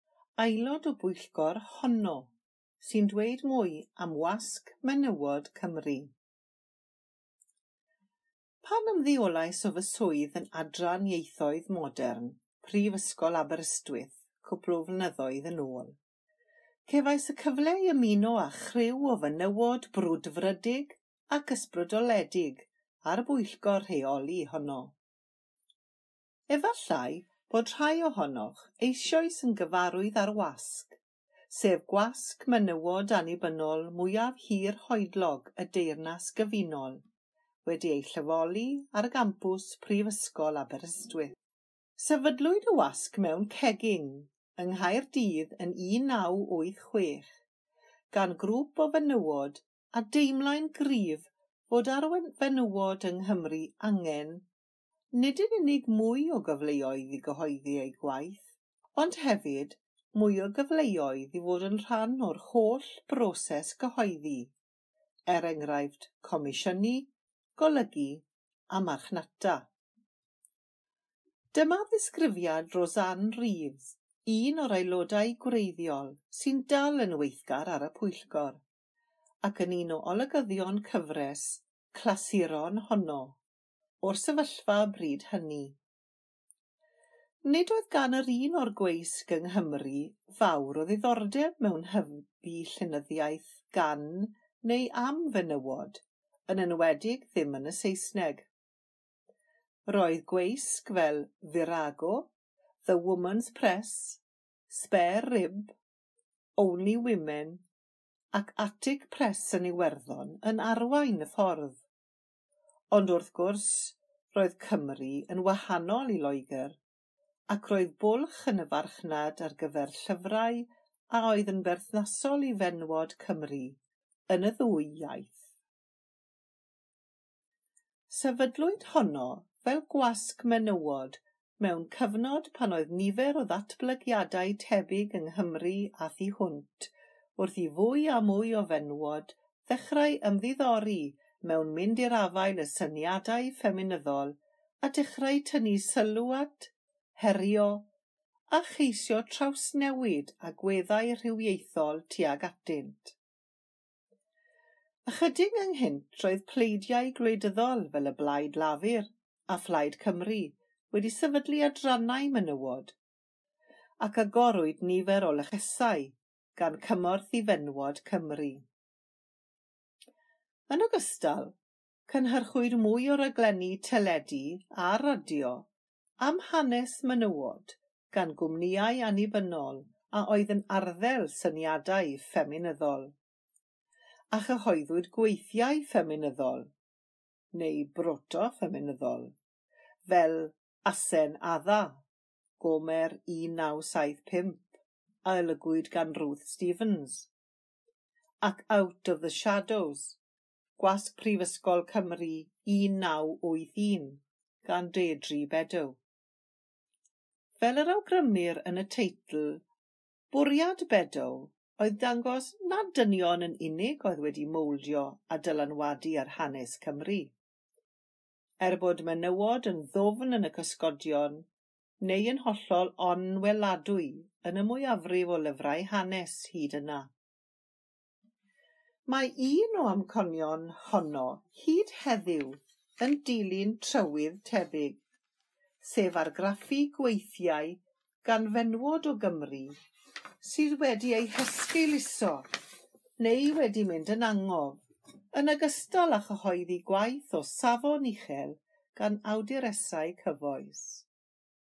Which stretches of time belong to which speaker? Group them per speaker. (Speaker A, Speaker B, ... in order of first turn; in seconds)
Speaker A: 0.4-6.1, 8.6-16.0, 16.9-24.9, 26.5-31.0, 31.5-37.0, 37.6-41.3, 42.0-47.3, 48.1-54.5, 55.1-64.5, 65.3-69.7, 71.5-78.6, 79.4-83.4, 84.0-85.8, 87.5-98.5, 99.9-102.3, 102.8-105.8, 106.6-107.6, 108.3-111.8, 112.9-116.8, 117.5-125.5, 128.1-147.9, 148.5-153.2, 155.1-162.9, 164.0-168.6, 170.7-175.7, 176.2-183.2, 184.3-186.7, 187.5-189.3, 190.1-192.0, 192.6-194.7, 195.2-197.3, 198.4-200.2, 200.8-206.0, 207.6-209.6, 210.3-217.3, 218.6-221.5, 222.0-227.1, 229.1-235.0, 235.8-239.7, 240.4-242.5, 243.2-244.8, 245.3-251.1